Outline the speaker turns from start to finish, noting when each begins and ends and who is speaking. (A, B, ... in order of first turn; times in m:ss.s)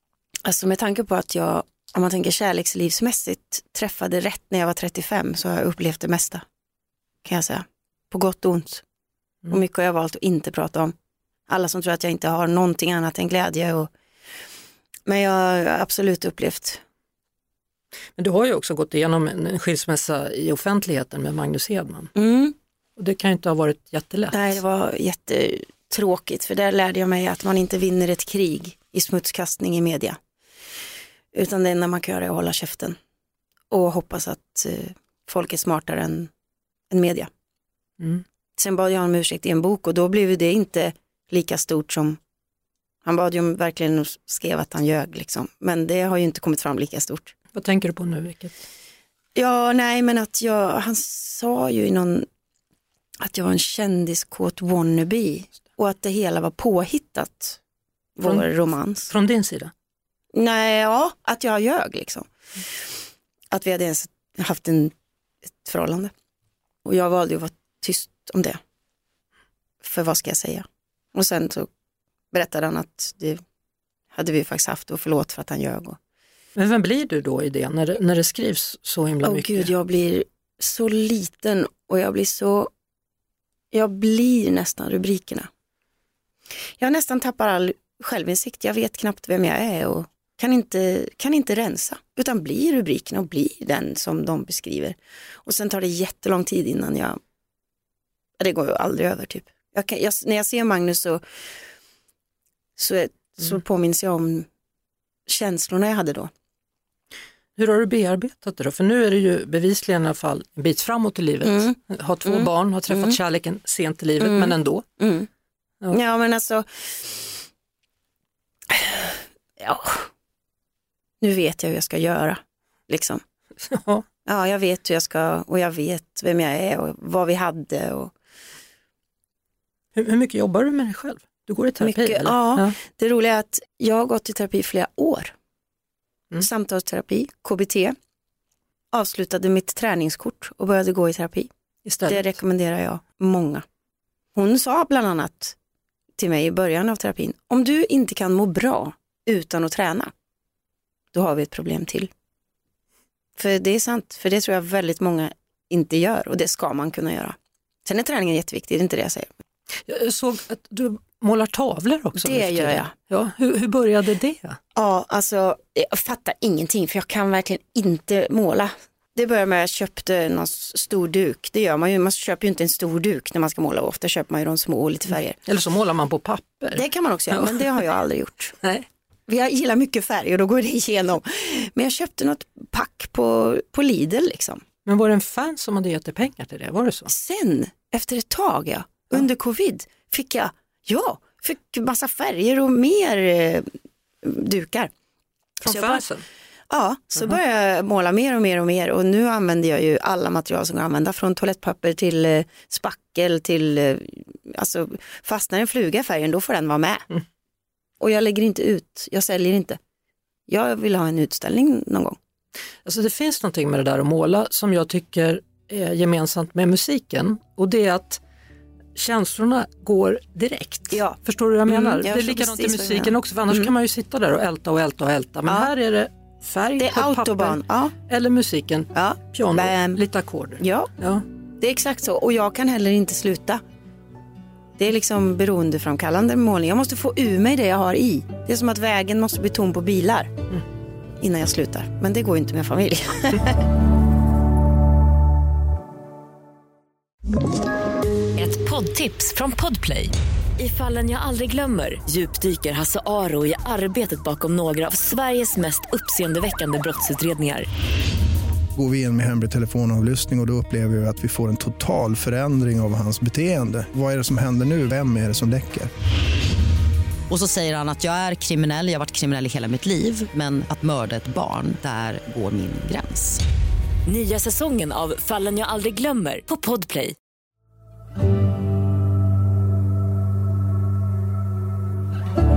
0:00.4-0:06.4 A
0:07.2-0:08.8 A
0:09.5-0:11.0 A
0:11.5-0:13.9 A
0:15.1-0:16.8 A
0:18.2-0:22.1 B
0:22.2-0:22.6 A
0:23.0-0:24.6 B
0:24.3-0:30.2 A
0:31.3-0:33.0 A
0:33.7-0:36.3 A
0:36.9-0:37.3 A
0:38.6-0:42.2 A
0:43.0-0:47.3 A
0:47.5-0:48.6 B
0:49.4-0:52.3 A
0:53.2-0:57.6 A
0:58.2-0:59.1 A
0:59.1-0:59.7 B
1:00.3-1:02.3 A
1:03.5-1:04.9 A
1:05.6-1:06.1 A
1:06.8-1:08.6 A
1:09.8-1:11.7 A
1:12.3-1:13.4 A
1:14.1-1:16.0 A
1:16.6-1:19.7 B
1:19.2-1:22.7 A
1:23.7-1:25.5 A
1:26.8-1:37.2 A
1:38.4-1:41.2 A
1:42.8-1:44.5 A
1:45.3-1:46.3 A
1:47.6-1:54.8 B
1:51.4-1:53.2 A
1:54.2-1:55.3 A
1:55.9-1:57.2 A
1:58.7-2:00.1 A
2:01.2-2:03.2 A
2:03.6-2:04.0 B
2:04.3-2:08.1 A
2:10.0-2:12.7 B
2:11.8-2:15.3 A
2:16.4-2:18.0 A
2:18.9-2:21.5 A
2:21.8-2:22.3 B
2:22.1-2:23.6 A
2:24.4-2:25.6 A
2:26.2-2:30.1 A
2:31.1-2:32.1 A
2:33.4-2:39.3 A
2:39.9-2:44.6 B
2:42.2-2:42.9 A
2:44.8-2:55.4 A
2:55.4-2:57.8 B
2:56.8-2:58.6 A
2:59.3-3:04.6 A
3:04.8-3:07.1 B
3:07.1-3:13.7 A
3:14.2-3:14.9 A
3:15.6-3:16.0 A
3:15.7-3:16.2 B
3:16.7-3:27.1 A
3:28.0-3:29.8 A
3:30.5-3:32.2 A
3:32.8-3:38.2 B
3:39.0-3:51.2 B
3:40.9-3:43.7 A
3:46.8-3:47.9 A
3:48.9-3:50.0 A
3:50.6-3:50.9 A
3:51.6-3:53.6 A
3:54.8-4:00.3 A
4:01.2-4:03.6 A
4:08.4-4:17.7 C
4:18.8-4:25.9 D
4:27.3-4:33.4 E
4:34.1-4:37.2 C